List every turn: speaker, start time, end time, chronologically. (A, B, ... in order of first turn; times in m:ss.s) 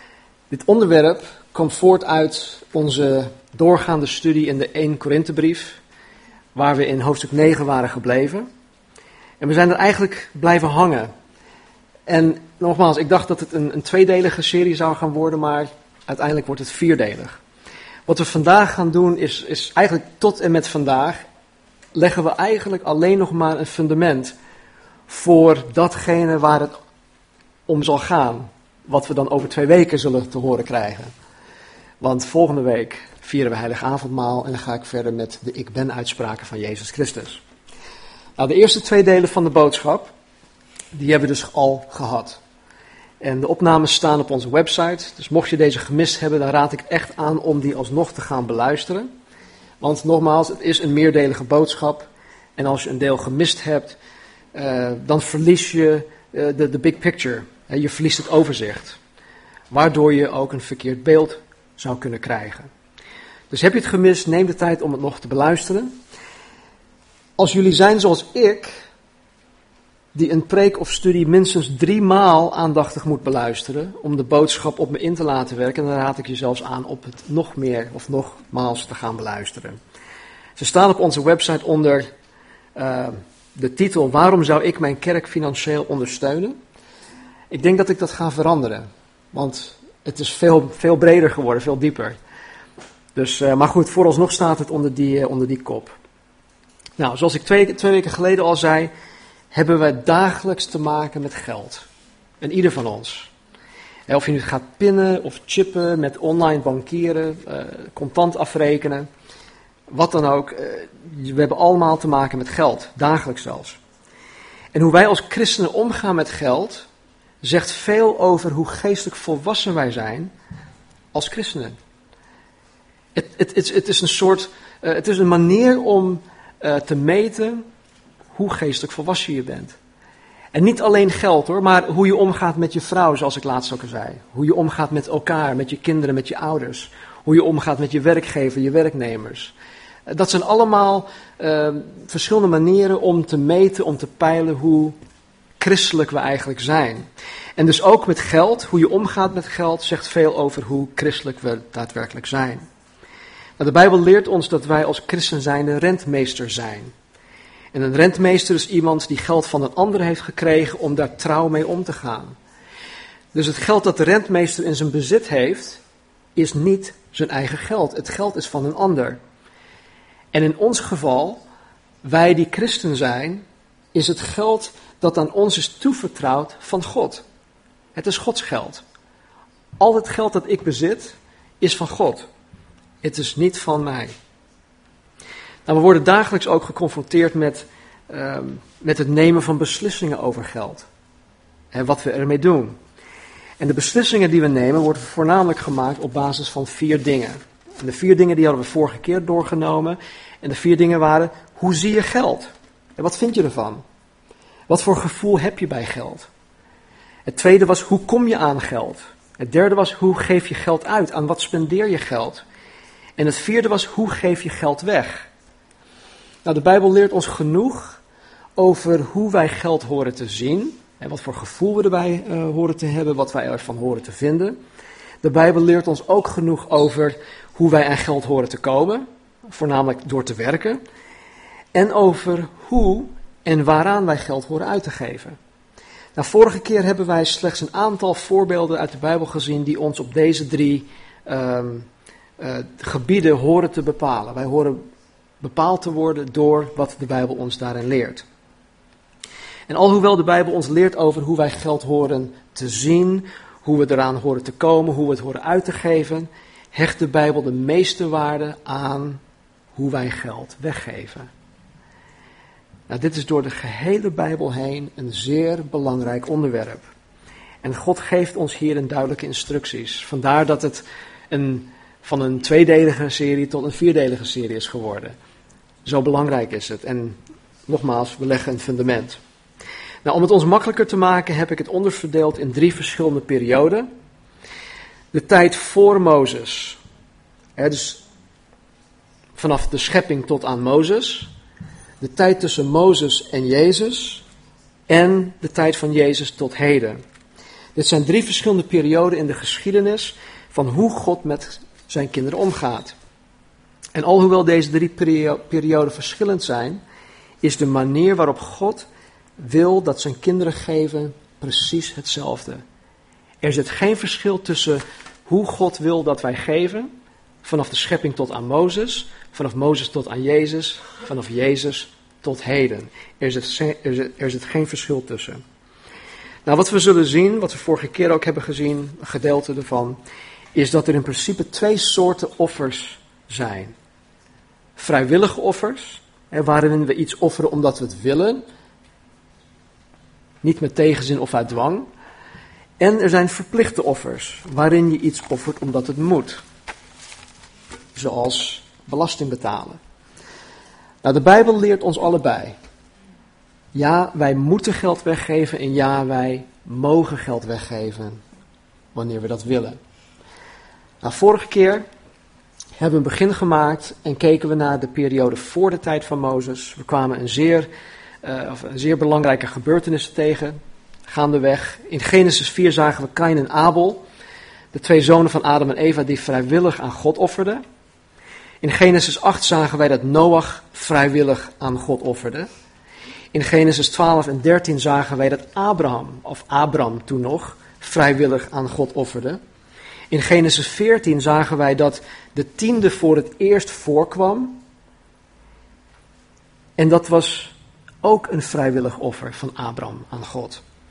0:00.5-0:05.8 A
0:06.6-0:08.5 A
0:09.4-0:11.1 A
0:12.1-0:17.4 A
0:18.1-0:21.2 A
0:21.9-0:24.4 A
0:25.1-0:26.8 A
0:27.7-0:31.1 A
0:32.0-0:37.4 A
0:38.4-0:40.1 A
0:40.9-0:42.4 A
0:43.2-0:49.1 A
0:49.8-0:54.0 A
0:54.5-0:59.0 A
0:59.7-1:02.7 A
1:03.5-1:06.0 A
1:07.4-1:08.7 A
1:10.2-1:19.8 A
1:20.6-1:22.1 A
1:22.8-1:26.6 A
1:27.5-1:32.2 A
1:33.2-1:36.0 A
1:37.0-1:38.9 A
1:39.5-1:41.9 A
1:42.4-1:43.3 A
1:44.1-1:49.1 A
1:49.9-1:53.8 A
1:54.7-1:56.9 A
1:57.4-2:00.3 A
2:01.1-2:01.8 A
2:03.2-2:07.6 A
2:08.3-2:09.8 A
2:10.5-2:19.5 A
2:20.1-2:25.0 A
2:25.6-2:32.6 A
2:33.6-2:36.9 A
2:37.7-2:42.4 A
2:43.3-2:45.8 A
2:46.4-2:49.2 A
2:50.3-2:51.4 A
2:52.0-2:57.2 A
2:58.0-2:58.8 A
2:59.8-3:02.3 A
3:03.0-3:04.2 A
3:05.7-3:10.9 A
3:11.7-3:12.8 A
3:13.6-3:23.8 A
3:24.7-3:26.3 A
3:27.3-3:32.4 A
3:33.2-3:35.3 A
3:36.4-3:38.0 A
3:38.6-3:44.6 A
3:45.2-3:50.8 A
3:51.7-3:55.4 A
3:56.2-4:01.9 A
4:02.4-4:04.8 A
4:05.4-4:08.2 A
4:09.7-4:19.2 A
4:19.7-4:21.3 A
4:22.9-4:26.8 A
4:27.6-4:35.2 A
4:35.8-4:39.2 A
4:40.0-4:43.9 A
4:45.1-4:46.8 A
4:47.6-4:48.0 A
4:49.4-4:51.3 A
4:52.0-4:54.2 A
4:54.9-4:57.0 A
4:57.8-5:03.0 A
5:03.9-5:06.8 A
5:07.4-5:08.9 A
5:09.4-5:12.6 A
5:13.4-5:16.9 A
5:17.4-5:25.4 A
5:26.5-5:30.0 A
5:30.5-5:33.8 A
5:34.8-5:38.4 A
5:40.4-5:41.9 A
5:42.8-5:46.4 A
5:48.0-5:49.8 A
5:51.0-5:52.6 A
5:53.7-5:58.2 A
5:59.0-5:59.8 A
6:01.0-6:01.9 A
6:02.8-6:07.7 A
6:08.2-6:14.0 A
6:14.7-6:17.6 A
6:18.6-6:22.5 A
6:23.3-6:29.4 A
6:30.1-6:34.6 A
6:36.8-6:40.6 A